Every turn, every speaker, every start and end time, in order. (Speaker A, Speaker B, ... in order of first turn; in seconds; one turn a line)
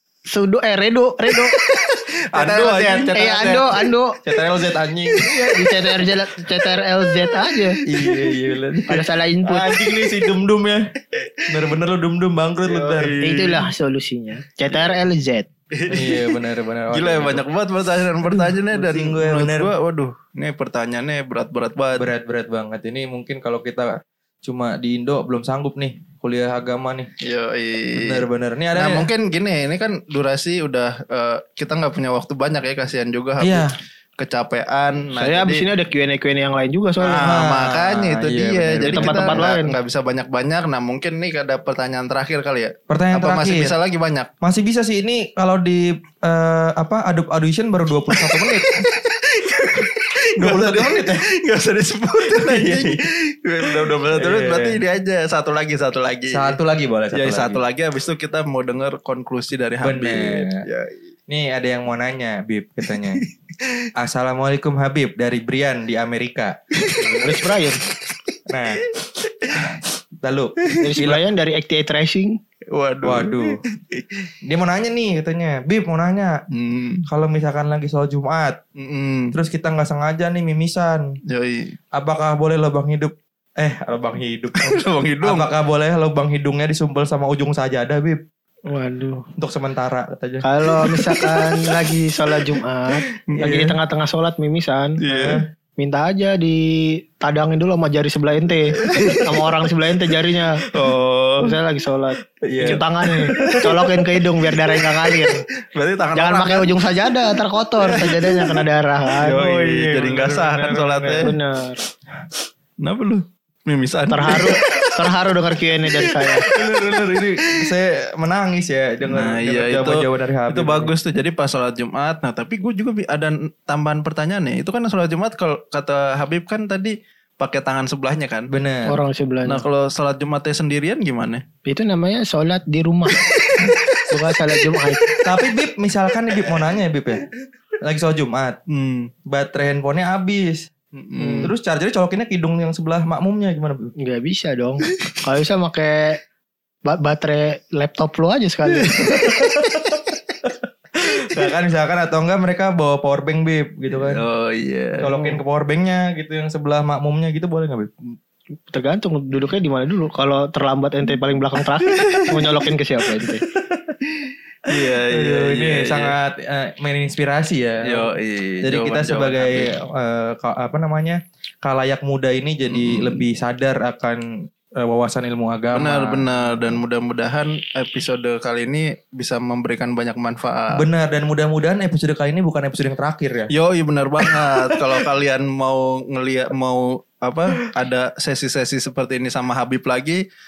Speaker A: 0.3-1.5
Speaker B: 1.5-3.9
Speaker A: 2.3-4.2
Speaker C: 4.2-5.3
Speaker B: 5.1-5.4
Speaker A: 5.2-7.8
Speaker B: 7.2-8.4
Speaker C: 7.8-10.9
Speaker A: 8.9-9.7
Speaker C: 11.4-13.2
Speaker B: 12.6-13.7
Speaker A: 13.2-15.5
Speaker B: 15.7-16.4
Speaker C: 15.9-17.4
Speaker B: 16.9-22.1
Speaker C: 18.3-19.7
Speaker C: 22.0-27.1
Speaker B: 27.2-33.7
Speaker C: 27.9-29.1
Speaker C: 33.4-33.7
Speaker B: 34.2-35.7
Speaker A: 35.2-37.3
Speaker B: 37.0-44.3
Speaker C: 37.2-39.4
Speaker A: 38.8-39.8
Speaker C: 42.9-43.8
Speaker C: 44.4-48.8
Speaker B: 48.1-56.6
Speaker C: 50.4-51.2
Speaker C: 52.3-53.0
Speaker C: 53.7-54.8
Speaker C: 56.3-57.6
Speaker B: 57.1-61.0
Speaker C: 59.8-60.6
Speaker C: 61.3-63.2
Speaker B: 62.9-63.9
Speaker C: 64.0-67.4
Speaker B: 66.7-67.5
Speaker A: 67.2-67.8
Speaker C: 68.5-68.9
Speaker C: 70.2-71.2
Speaker A: 70.8-72.4
Speaker B: 72.7-74.3
Speaker C: 73.0-73.6
Speaker C: 74.5-76.4
Speaker B: 76.5-77.0
Speaker C: 77.1-78.6
Speaker B: 78.8-79.3
Speaker C: 79.3-81.2
Speaker B: 81.3-81.7
Speaker C: 81.9-88.2
Speaker B: 84.6-85.5
Speaker A: 88.7-89.3
Speaker C: 89.4-90.4
Speaker A: 90.4-95.0
Speaker B: 90.8-92.6
Speaker B: 93.1-93.7
Speaker B: 95.0-95.4
Speaker C: 95.1-95.4
Speaker A: 95.8-100.6
Speaker B: 98.7-99.5
Speaker B: 100.7-101.6
Speaker A: 101.4-105.4
Speaker C: 102.4-103.9
Speaker B: 103.3-103.8
Speaker B: 105.7-107.1
Speaker A: 106.1-109.4
Speaker B: 107.8-111.3
Speaker C: 109.2-111.3
Speaker A: 111.2-111.8
Speaker B: 112.8-115.1
Speaker A: 114.1-116.5
Speaker B: 115.8-117.5
Speaker C: 116.4-120.9
Speaker B: 119.0-128.5
Speaker C: 128.5-129.0
Speaker A: 128.8-129.6
Speaker B: 129.4-131.4
Speaker A: 131.6-133.3
Speaker B: 133.2-133.8
Speaker A: 134.1-135.1
Speaker B: 134.7-135.2
Speaker C: 135.2-137.2
Speaker C: 137.8-138.6
Speaker B: 138.7-139.1
Speaker C: 139.2-140.7
Speaker B: 140.9-141.5
Speaker A: 141.2-141.5
Speaker C: 141.4-143.9
Speaker A: 144.0-146.2
Speaker A: 146.9-149.1
Speaker B: 148.7-149.1
Speaker C: 149.2-154.2
Speaker B: 153.9-155.4
Speaker C: 155.0-157.9
Speaker A: 158.7-163.4
Speaker B: 161.9-162.7
Speaker B: 164.7-166.1
Speaker C: 165.1-168.1
Speaker B: 167.8-169.7
Speaker C: 168.6-174.2
Speaker B: 172.7-173.2
Speaker C: 174.8-176.8
Speaker B: 175.7-180.8
Speaker C: 180.7-183.5
Speaker B: 183.5-190.2
Speaker C: 184.2-184.9